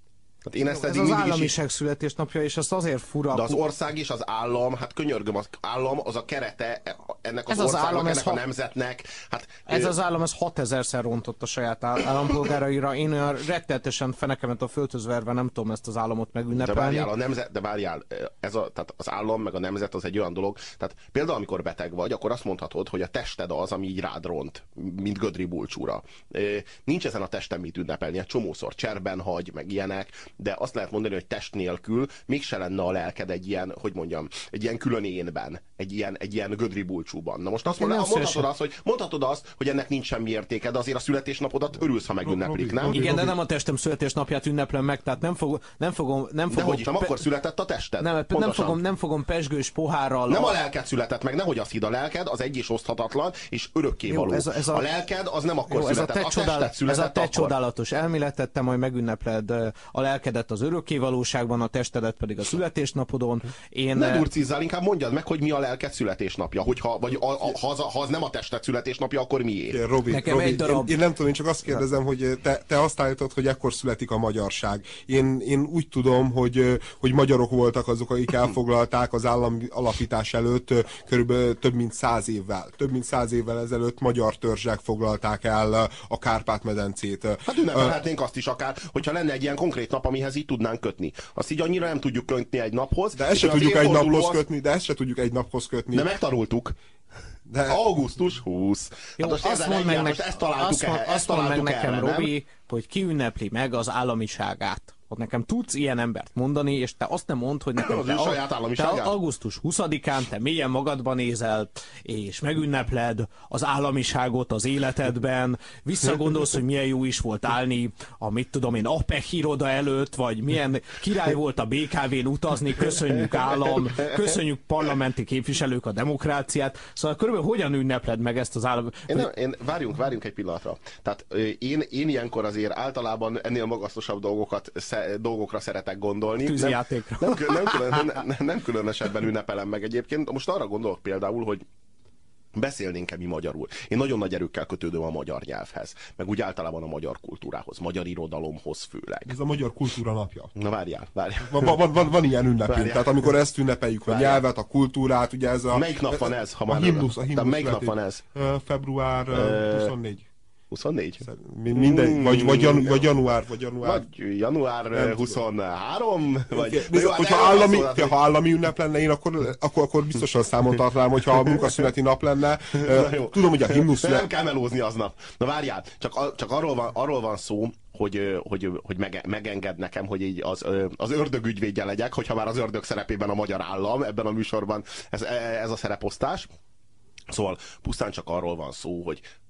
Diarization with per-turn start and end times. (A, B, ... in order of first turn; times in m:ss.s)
0:00.4-0:01.6 A
0:00.7-0:03.6 B
0:03.3-0:10.0 A
0:07.5-0:08.4 B
0:09.7-0:17.1 B
0:16.5-0:43.1 A
0:37.7-0:38.5 B
0:42.2-0:43.4 C
0:42.8-0:47.2 B
0:46.5-0:48.8 A
0:48.0-0:50.5 B
0:50.3-0:57.6 A
0:54.1-0:54.8 B
0:55.7-1:04.3 B
1:03.9-1:09.8 A
1:09.7-1:28.0 C
1:10.1-1:10.9 B
1:27.5-1:34.4 A
1:33.1-1:36.1 C
1:35.9-1:36.8 A
1:37.5-1:37.8 C
1:37.7-1:42.3 A
1:39.2-2:09.3 B
1:47.8-1:49.2 A
2:02.8-2:04.9 A
2:09.1-2:21.6 A
2:16.4-2:18.0 B
2:22.5-2:29.4 A
2:29.3-2:30.5 C
2:30.6-2:31.8 A
2:31.4-2:40.3 C
2:32.7-2:33.3 A
2:34.1-2:34.4 A
2:35.7-2:38.2 A
2:39.3-2:40.0 A
2:40.7-2:43.1 A
2:41.2-2:44.1 C
2:43.8-2:48.2 A
2:44.9-2:45.4 C
2:46.5-2:54.3 C
2:52.8-3:06.5 A
3:07.3-3:09.2 A